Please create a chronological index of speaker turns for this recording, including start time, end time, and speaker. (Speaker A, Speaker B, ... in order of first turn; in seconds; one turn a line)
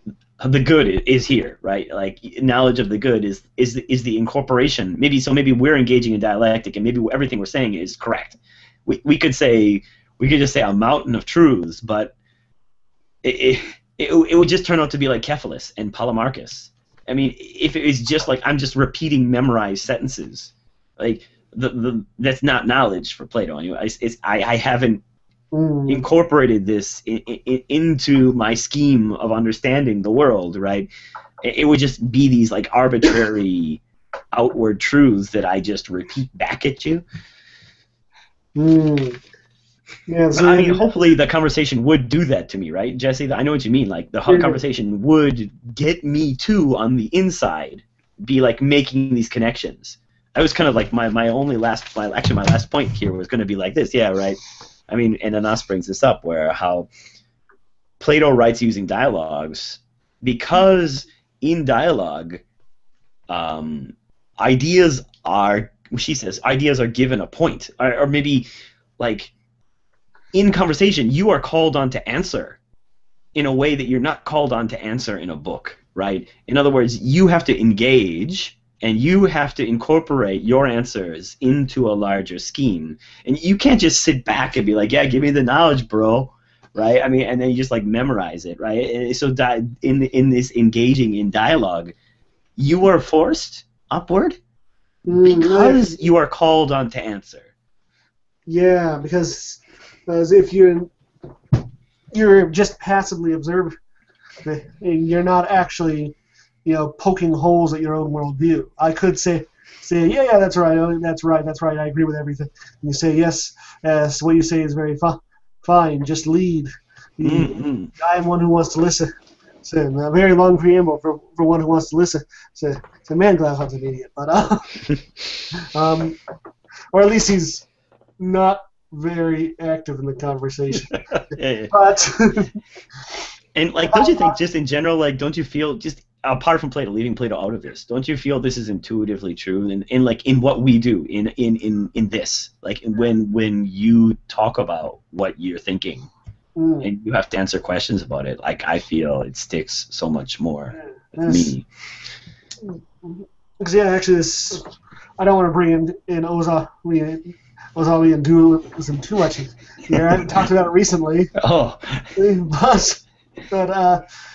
Speaker A: 0.4-12.1
Speaker A: 13.2-25.0
Speaker B: 25.5-26.1
Speaker A: 25.9-30.9
Speaker A: 31.4-33.8
Speaker A: 34.3-37.0
Speaker B: 38.6-39.2
Speaker B: 40.1-40.9
Speaker A: 40.3-56.9
Speaker B: 44.3-44.6
Speaker A: 58.0-62.4
Speaker A: 63.3-68.5
Speaker A: 69.0-69.3
Speaker A: 70.3-72.6
Speaker A: 73.3-91.9
Speaker A: 92.6-94.4
Speaker B: 95.1-96.0
Speaker A: 95.2-97.5
Speaker B: 98.5-100.9
Speaker B: 102.1-103.7
Speaker B: 104.4-119.1
Speaker A: 117.2-117.9
Speaker B: 119.6-124.8
Speaker B: 125.6-126.2
Speaker B: 126.9-127.7
Speaker B: 128.2-131.0
Speaker A: 131.1-131.7
Speaker B: 131.7-132.6
Speaker A: 133.6-146.1
Speaker B: 133.9-134.4
Speaker B: 146.6-146.9
Speaker A: 146.8-151.7
Speaker B: 150.8-151.6
Speaker B: 152.6-154.7
Speaker B: 155.2-161.3
Speaker A: 159.9-160.3
Speaker A: 161.4-162.1
Speaker B: 162.2-164.0